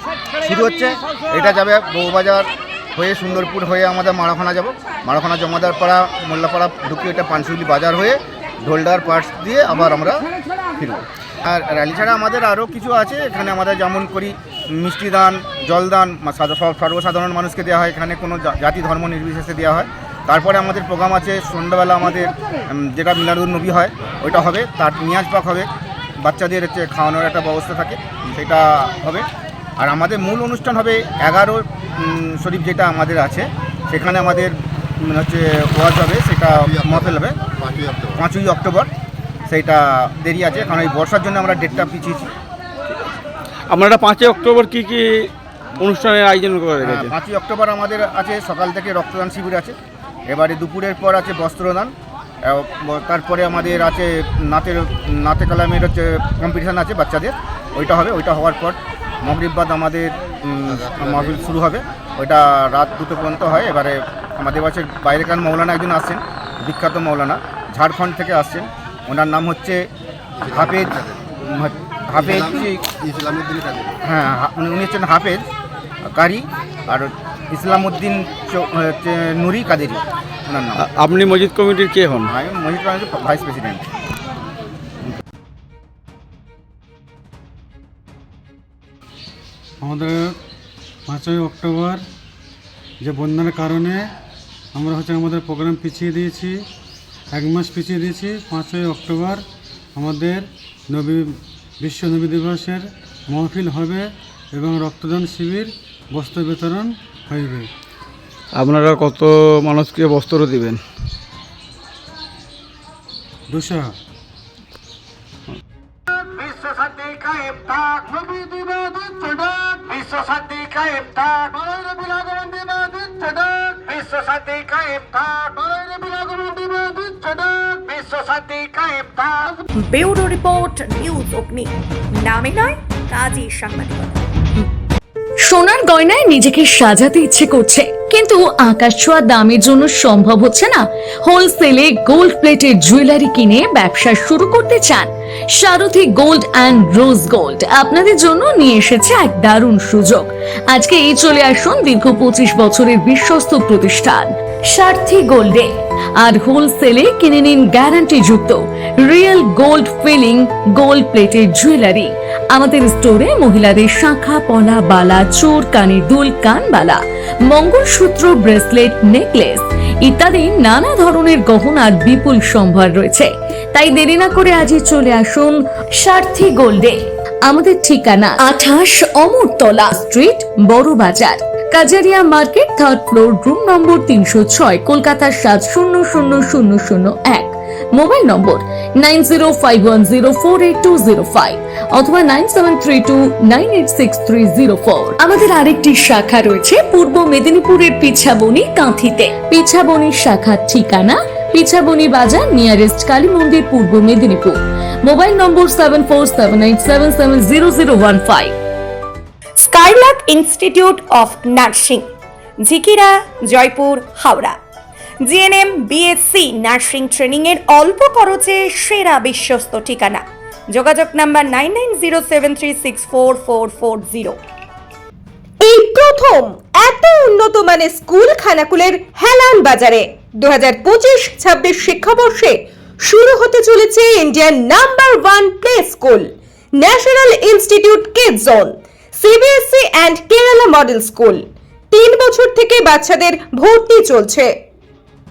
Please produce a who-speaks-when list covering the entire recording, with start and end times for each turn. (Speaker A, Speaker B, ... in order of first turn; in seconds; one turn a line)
Speaker A: 0.4-25.7
Speaker A: 26.2-29.3
Speaker A: 29.8-37.4
Speaker A: 38.1-38.9
Speaker A: 39.5-42.3
Speaker B: 43.7-47.1
Speaker A: 46.8-49.8
Speaker A: 50.3-51.9
Speaker A: 52.5-69.8
Speaker A: 70.5-72.9
Speaker A: 74.0-75.5
Speaker A: 76.0-80.9
Speaker B: 80.8-82.3
Speaker A: 82.2-83.8
Speaker C: 89.8-90.4
Speaker C: 91.1-92.0
Speaker C: 93.0-94.1
Speaker C: 94.7-96.6
Speaker C: 97.3-99.4
Speaker C: 100.0-107.7
Speaker B: 108.5-110.8
Speaker C: 113.5-113.9
Speaker D: 116.3-129.5
Speaker E: 129.8-134.2
Speaker F: 135.5-208.6
Speaker E: 209.6-212.1
Speaker E: 212.6-214.6
Speaker E: 215.2-224.4
Speaker G: 225.6-244.6